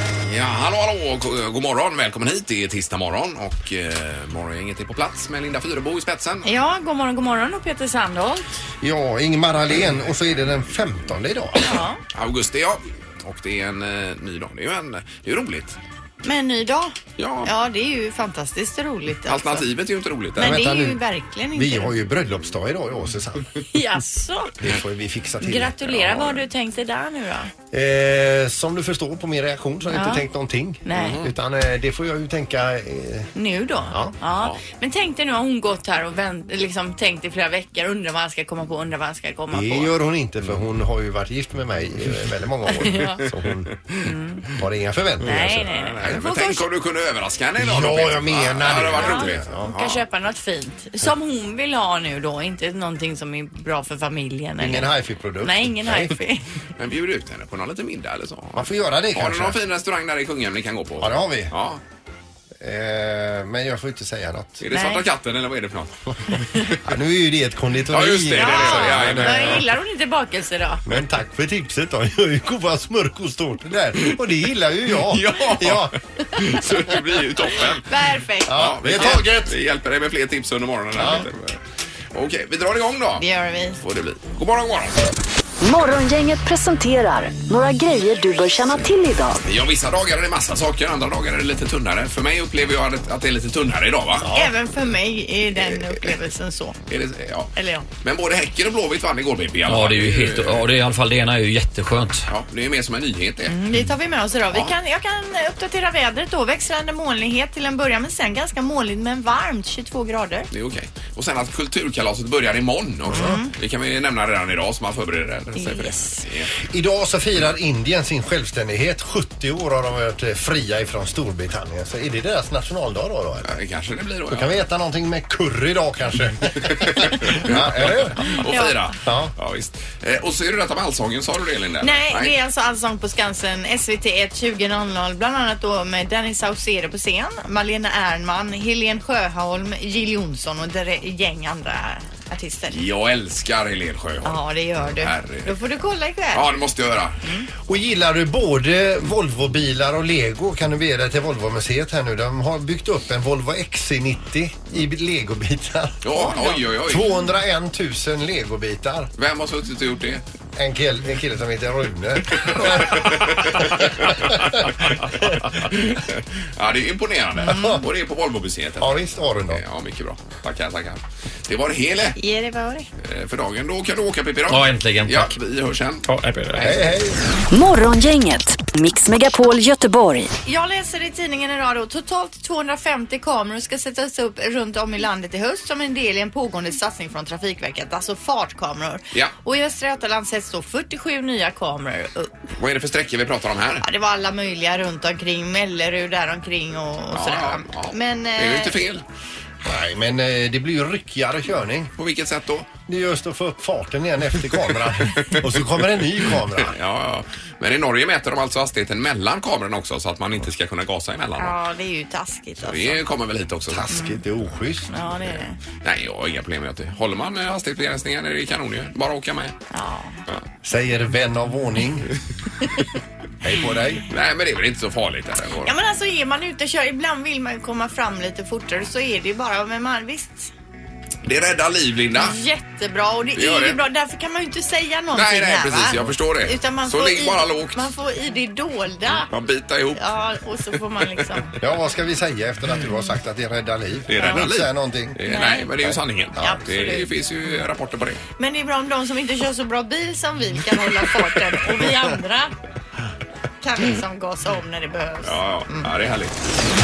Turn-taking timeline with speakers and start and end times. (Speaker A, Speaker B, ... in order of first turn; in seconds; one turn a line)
Speaker A: 0.2-6.5
Speaker B: 6.4-8.5
Speaker C: 8.8-11.7
Speaker B: 11.6-12.0
Speaker A: 12.1-15.8
Speaker B: 16.2-19.6
Speaker A: 17.2-17.5
Speaker A: 19.2-20.6
Speaker B: 20.4-21.9
Speaker C: 20.4-23.5
Speaker B: 23.7-24.5
Speaker C: 24.6-26.4
Speaker B: 25.4-27.5
Speaker C: 27.7-33.3
Speaker B: 29.9-30.2
Speaker B: 30.9-31.2
Speaker A: 30.9-31.3
Speaker B: 33.3-39.9
Speaker C: 33.9-34.1
Speaker A: 34.3-34.6
Speaker C: 39.5-43.7
Speaker B: 42.7-43.2
Speaker B: 44.0-44.4
Speaker C: 44.5-45.7
Speaker B: 45.2-46.6
Speaker A: 45.2-49.5
Speaker C: 47.6-50.0
Speaker B: 48.8-54.9
Speaker C: 54.6-56.1
Speaker B: 55.4-56.4
Speaker A: 56.8-61.8
Speaker C: 58.5-59.6
Speaker C: 61.0-61.5
Speaker C: 62.6-64.6
Speaker A: 64.6-66.8
Speaker B: 64.7-65.0
Speaker C: 66.8-69.7
Speaker A: 67.9-69.7
Speaker B: 68.3-70.8
Speaker C: 70.8-75.9
Speaker A: 74.9-77.9
Speaker B: 77.8-79.2
Speaker C: 78.5-79.5
Speaker A: 78.5-81.6
Speaker C: 80.9-81.3
Speaker A: 82.1-83.2
Speaker B: 83.2-83.8
Speaker A: 83.8-85.1
Speaker D: 85.6-89.4
Speaker A: 89.4-94.3
Speaker C: 94.2-94.5
Speaker B: 94.3-96.8
Speaker A: 95.5-96.2
Speaker A: 96.9-100.7
Speaker B: 97.5-97.8
Speaker E: 99.7-102.2
Speaker A: 102.3-103.6
Speaker B: 103.5-110.5
Speaker A: 110.5-116.5
Speaker B: 113.1-113.5
Speaker B: 115.5-116.2
Speaker C: 116.7-123.6
Speaker A: 123.4-124.6
Speaker C: 124.3-128.4
Speaker A: 126.5-132.3
Speaker B: 128.4-128.9
Speaker C: 129.0-129.3
Speaker B: 131.8-142.8
Speaker A: 142.7-145.6
Speaker B: 144.2-146.6
Speaker A: 146.3-147.2
Speaker C: 147.7-156.2
Speaker A: 156.0-157.1
Speaker B: 156.1-156.6
Speaker C: 156.8-159.1
Speaker A: 159.2-160.2
Speaker C: 160.6-164.7
Speaker A: 162.3-172.2
Speaker C: 167.4-167.8
Speaker B: 167.4-167.8
Speaker C: 168.8-169.6
Speaker B: 172.2-172.9
Speaker A: 173.0-176.8
Speaker E: 174.5-175.3
Speaker E: 176.0-176.8
Speaker C: 176.6-177.2
Speaker D: 177.5-180.3
Speaker B: 180.4-192.3
Speaker A: 192.6-193.8
Speaker B: 193.8-198.8
Speaker A: 197.1-199.0
Speaker C: 199.6-201.9
Speaker A: 202.0-202.7
Speaker C: 202.9-206.7
Speaker A: 204.5-211.6
Speaker B: 211.4-213.0
Speaker A: 212.6-213.9
Speaker C: 213.7-215.1
Speaker B: 213.9-214.2
Speaker B: 214.9-215.6
Speaker A: 215.8-219.6
Speaker B: 219.7-220.2
Speaker C: 220.6-222.1
Speaker C: 223.4-224.1
Speaker A: 224.1-225.7
Speaker B: 225.6-230.5
Speaker A: 231.2-232.4
Speaker B: 232.1-239.3
Speaker A: 233.3-233.8
Speaker A: 235.1-237.9
Speaker A: 239.1-240.0
Speaker B: 239.9-241.6
Speaker A: 241.2-241.4
Speaker C: 241.6-245.2
Speaker A: 244.1-248.2
Speaker B: 244.2-244.4
Speaker B: 245.2-245.7
Speaker C: 245.8-246.6
Speaker B: 246.4-247.1
Speaker B: 248.4-252.5
Speaker B: 253.6-255.9
Speaker A: 255.2-256.4